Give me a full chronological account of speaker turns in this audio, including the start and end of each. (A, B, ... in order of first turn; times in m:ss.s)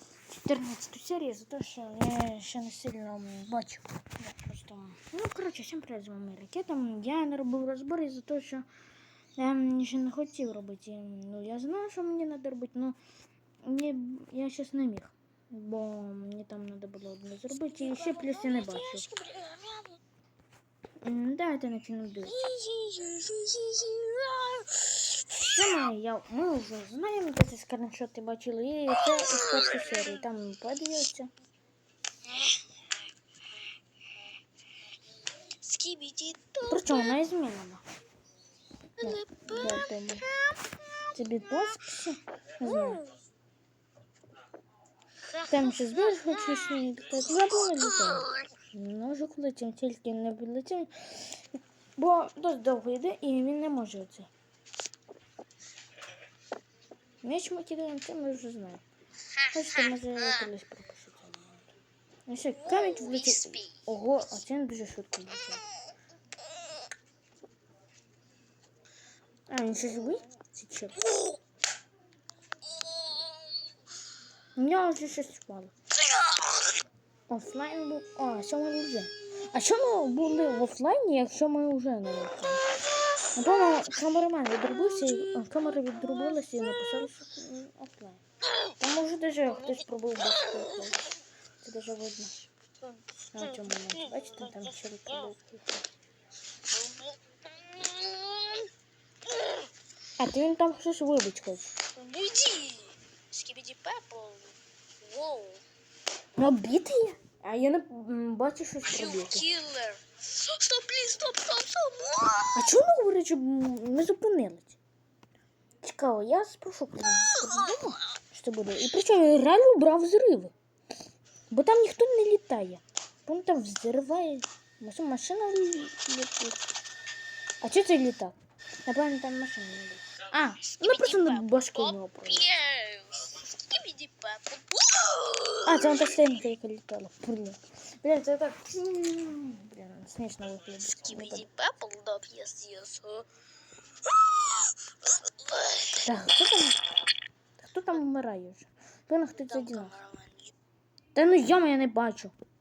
0:00.3-0:08.6 A
0:09.4-0:13.0 A
0:13.6-0:19.1 A
0:17.8-0:20.0 B
0:21.0-0:22.4 A
0:22.3-0:24.9 B
0:25.3-0:31.3 A
0:32.3-0:32.6 B
0:35.6-0:37.1 B
0:36.7-0:37.8 A
0:39.0-0:40.6 B
0:39.0-0:40.3 A
0:41.1-0:43.0 A
0:42.6-0:43.1 B
0:45.4-0:46.3 B
0:45.4-0:51.4 A
0:52.0-0:54.3 A
0:57.2-0:58.8 A
0:59.5-1:01.7 A
1:02.3-1:05.6 A
1:02.7-1:03.8 B
1:09.5-1:11.1 A
1:14.5-1:15.7 A
1:17.3-1:22.7 A
1:23.3-1:28.2 A
1:28.8-1:31.0 A
1:31.6-1:32.5 A
1:33.3-1:35.8 A
1:36.7-1:38.7 B
1:39.3-1:39.6 B
1:40.2-1:41.7 A
1:41.9-1:45.6 B
1:46.4-1:49.5 A
1:48.9-1:52.6 B
1:52.5-1:54.8 A
1:55.8-2:00.5 A
2:01.5-2:06.6 A
2:07.6-2:08.3 A
2:08.8-2:12.5 A
2:10.7-2:15.7 B
2:15.6-2:21.5 A
2:21.0-2:23.3 B
2:24.0-2:25.9 B
2:25.9-2:26.8 A
2:27.6-2:29.9 A
2:29.3-2:30.5 B
2:31.1-2:32.3 A